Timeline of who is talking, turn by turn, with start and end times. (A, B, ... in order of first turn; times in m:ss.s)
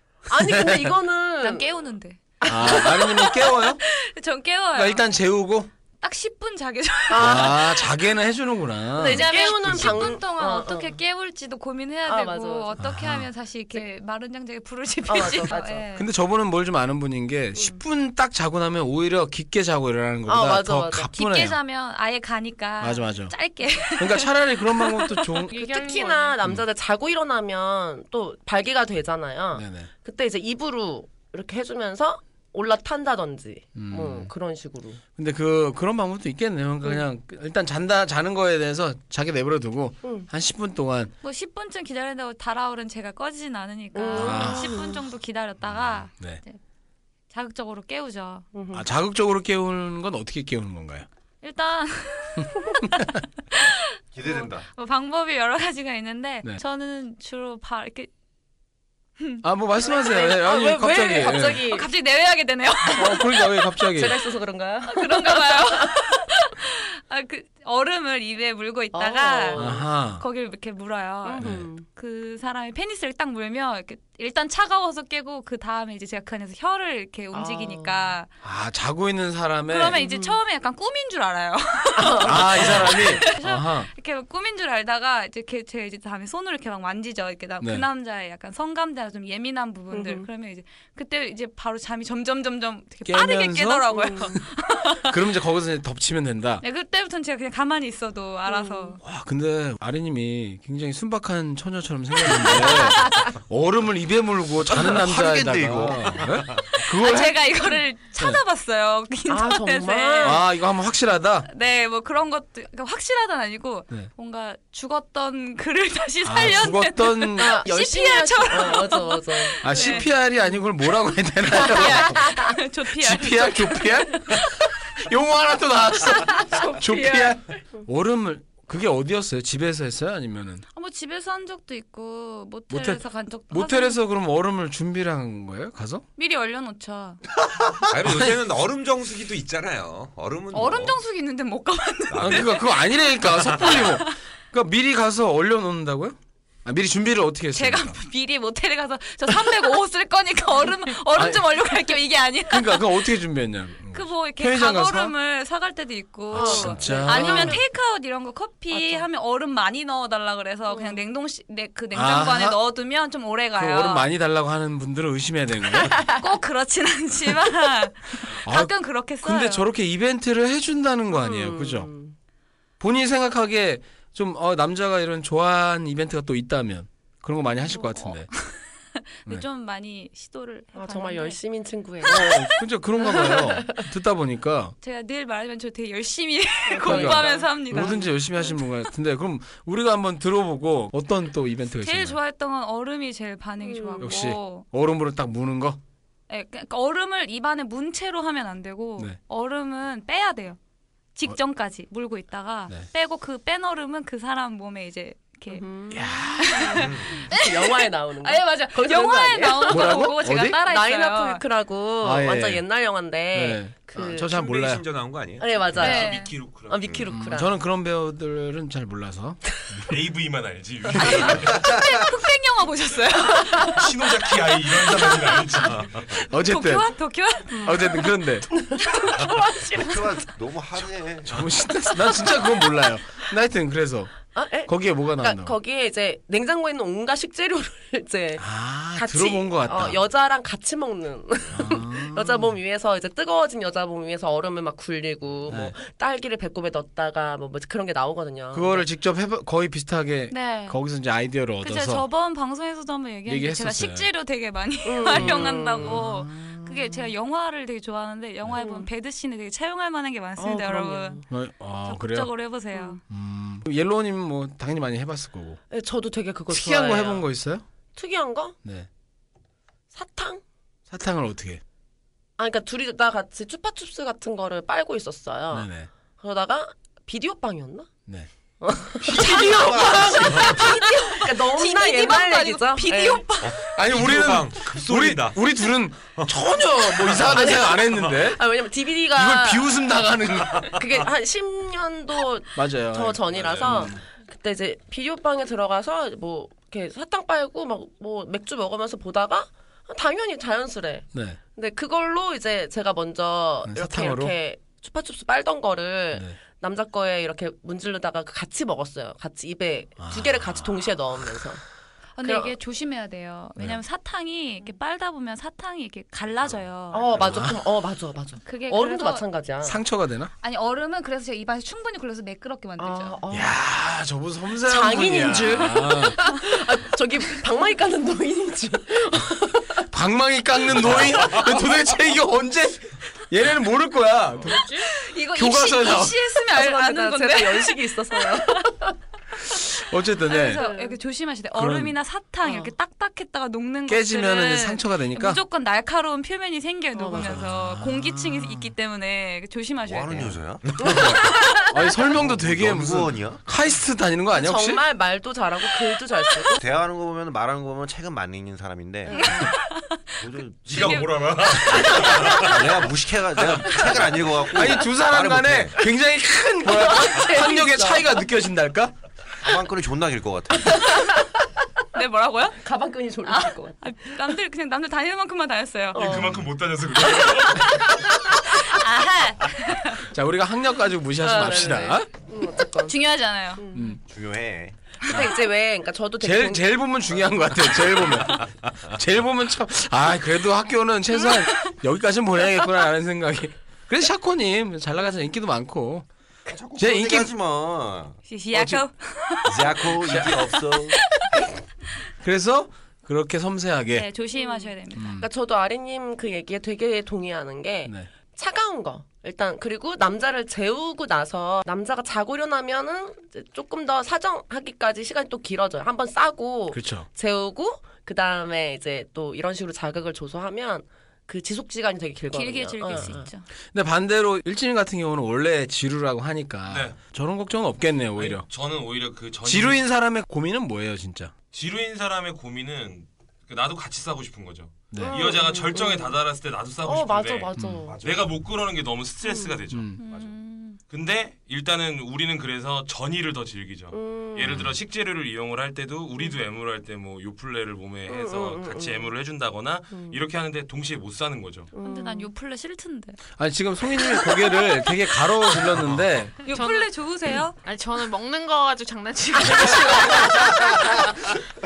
0:00.3-0:01.7 A
0:00.4-0:00.9 B
0:01.4-0:05.0 C
0:02.5-0:03.8 B
0:02.5-0:02.9 A
0:04.7-0:05.7 B
0:06.0-0:07.9 C
0:07.1-0:07.6 A
0:07.2-0:10.2 B
0:09.0-0:11.0 A
0:09.0-0:16.1 C
0:12.0-0:12.8 A
0:12.8-0:13.3 B
0:15.1-0:15.9 A
0:16.0-0:21.6 B
0:20.3-0:21.1 A
0:21.2-0:25.2 C
0:22.8-0:23.4 B
0:24.0-0:25.5 B
0:25.5-0:26.4 D
0:25.5-0:35.0 A
0:29.6-0:29.9 B
0:33.8-0:34.3 B
0:35.2-0:41.1 B
0:40.0-0:40.3 A
0:41.2-0:46.6 C
0:43.9-0:45.1 A
0:44.1-0:44.8 B
0:45.6-0:46.4 B
0:47.3-0:48.5 C
0:48.5-0:48.8 A
0:48.7-0:51.1 B
0:51.4-0:58.1 C
0:52.4-0:53.1 B
0:54.1-0:54.7 E
0:59.4-1:01.6 B
0:59.8-1:01.9 A
1:01.1-1:03.5 C
1:03.0-1:04.1 B
1:04.0-1:06.0 A
1:04.8-1:18.3 C
1:08.9-1:09.9 A
1:09.6-1:10.2 B
1:11.2-1:11.9 A
1:11.4-1:11.7 B
1:17.3-1:18.2 A
1:18.4-1:20.0 B
1:19.7-1:35.2 C
1:20.0-1:20.4 A
1:22.0-1:23.1 A
1:22.2-1:23.9 B
1:27.6-1:27.9 B
1:29.9-1:30.3 A
1:33.0-1:34.4 B
1:33.9-1:34.3 A
1:35.1-1:36.6 B
1:36.6-1:39.0 C
1:38.5-1:39.0 A
1:39.0-1:47.4 B
1:44.7-1:46.5 E
1:46.9-1:50.4 C
1:49.3-1:50.4 A
1:50.2-1:51.5 B
1:51.5-2:00.1 C
1:56.2-1:57.5 B
1:57.4-2:00.0 A
1:59.6-2:02.3 B
2:01.5-2:04.7 C
2:02.9-2:04.5 B
2:05.0-2:10.6 B
2:06.1-2:07.6 C
2:10.7-2:14.0 C
2:12.7-2:16.0 B
2:16.2-2:17.2 C
2:17.9-2:21.0 F
2:18.0-2:18.3 B
2:20.5-2:22.9 C
2:22.1-2:22.6 F
2:22.2-2:28.0 B
2:23.8-2:24.1 C
2:27.5-2:33.1 C
2:31.1-2:31.4 B
2:32.5-2:35.2 B
2:33.9-2:44.1 C
2:36.3-2:37.6 B
2:36.3-2:37.7 A
2:38.7-2:39.1 A
2:40.7-2:41.0 A
2:41.9-2:42.6 B
2:43.6-2:46.0 B
2:46.2-2:49.7 C
2:48.4-2:51.9 B
2:51.1-2:52.2 A
2:52.8-2:58.3 B
2:57.6-3:01.4 C
3:00.8-3:02.3 A
3:02.0-3:02.4 C
3:02.0-3:04.8 B
3:03.0-3:03.7 A
3:04.8-3:08.6 C
3:06.7-3:08.0 A
3:06.8-3:12.2 B
3:11.8-3:14.7 C
3:13.6-3:14.2 A
3:14.0-3:15.8 B
3:16.3-3:20.6 C
3:21.2-3:25.6 C
3:25.5-3:30.1 A
3:25.9-3:26.8 B
3:26.4-3:31.4 C
3:26.8-3:27.2 F
3:29.7-3:30.6 B
3:30.6-3:34.4 A
3:32.0-3:32.6 B
3:33.3-3:34.8 B
3:34.3-3:35.8 F
3:35.4-3:37.6 A
3:35.8-3:36.3 C
3:35.8-3:36.8 G
3:37.1-3:39.4 B
3:39.9-3:41.7 G
3:41.0-3:41.3 B
3:41.6-3:42.0 E
3:41.6-3:43.8 C
3:43.6-3:46.3 G
3:46.3-3:46.9 B
3:46.4-3:48.1 C
3:47.5-3:48.5 B
3:48.5-3:50.2 A
3:49.7-3:51.5 E
3:51.2-3:55.5 B
3:54.4-4:08.9 A
3:58.4-4:00.0 B
4:01.5-4:02.6 B
4:05.5-4:05.8 B
4:08.5-4:12.1 B
4:10.3-4:10.8 C
4:11.6-4:21.2 C
4:13.3-4:14.1 B
4:14.8-4:16.1 A
4:15.1-4:16.7 B
4:18.5-4:18.9 A
4:20.4-4:21.2 A
4:21.3-4:22.3 B
4:21.8-4:23.0 C
4:22.7-4:23.0 A
4:23.1-4:25.6 B
4:25.7-4:27.3 A
4:26.5-4:27.6 B
4:28.0-4:28.6 A
4:29.9-4:30.4 A
4:30.9-4:31.6 B
4:32.4-4:37.9 A
4:35.5-4:35.9 B
4:38.6-4:43.3 A
4:39.2-4:43.6 C
4:39.5-4:40.0 E
4:43.4-4:45.4 F
4:43.7-4:48.4 B
4:47.3-4:49.9 A
4:49.2-4:50.8 B
4:50.6-5:11.6 A
4:52.6-4:54.0 B
5:01.1-5:01.4 B
5:03.6-5:04.3 B
5:10.0-5:11.3 B
5:12.2-5:17.2 C
5:12.2-5:12.5 A
5:16.9-5:19.8 A
5:17.2-5:17.6 B
5:18.4-5:19.2 C
5:19.6-5:20.3 B
5:20.4-5:23.2 C
5:22.8-5:23.6 A
5:23.3-5:26.2 B
5:24.6-5:29.8 A
5:29.9-5:34.7 B
5:34.5-5:34.8 D
5:34.9-5:38.7 C
5:35.3-5:36.2 B
5:36.5-5:39.0 A
5:39.5-5:40.6 B
5:40.2-5:50.4 C
5:40.4-5:41.0 A
5:41.5-5:42.0 B
5:42.4-5:42.7 A
5:43.9-5:45.4 B
5:47.0-5:47.5 A
5:47.1-5:48.7 B
5:49.8-5:51.1 E
5:50.1-5:54.8 B
5:50.8-5:51.6 A
5:52.2-5:53.4 E
5:54.4-5:56.6 A
5:56.6-5:59.4 E
5:59.1-5:59.5 A
5:59.1-6:00.1 C
6:00.2-6:05.8 E
6:00.7-6:02.6 G
6:00.8-6:01.0 C
6:02.0-6:02.4 A
6:04.5-6:08.9 B
6:06.7-6:08.2 A
6:09.4-6:10.9 E
6:11.9-6:12.6 C
6:12.6-6:13.8 A
6:13.2-6:16.2 C
6:15.9-6:16.5 A
6:16.0-6:17.8 G
6:17.0-6:18.3 A
6:18.4-6:20.0 C
6:20.1-6:22.1 B
6:21.2-6:23.0 A
6:22.8-6:23.7 C
6:23.6-6:23.9 A
6:24.1-6:24.8 E
6:25.0-6:26.6 A
6:26.2-6:36.1 B
6:31.1-6:31.5 C
6:36.5-6:38.2 E
6:36.8-6:37.3 B
6:38.3-6:41.4 C
6:38.5-6:38.8 B
6:39.4-6:41.0 E
6:40.1-6:40.4 B
6:42.2-6:44.1 B
6:43.9-6:45.2 C
6:44.4-7:03.3 A
6:44.9-6:45.3 B
6:56.7-6:57.1 B
7:02.3-7:03.5 C
7:02.9-7:03.2 B
7:03.7-7:08.5 B
7:06.7-7:07.0 G
7:08.2-7:09.8 G
7:09.4-7:11.3 B
7:11.5-7:20.3 G
7:14.9-7:15.2 B
7:15.0-7:16.2 A
7:16.8-7:18.1 A
7:17.6-7:17.9 B
7:18.0-7:18.3 F
7:19.2-7:19.6 A
7:19.7-7:20.0 B
7:20.0-7:20.8 C
7:20.9-7:31.7 G
7:23.9-7:24.6 A
7:24.4-7:24.8 B
7:28.1-7:29.1 A
7:29.9-7:30.2 A
7:31.7-7:32.3 A
7:31.8-7:33.2 C
7:33.4-7:36.4 B
7:36.4-7:37.6 C
7:36.5-7:40.7 D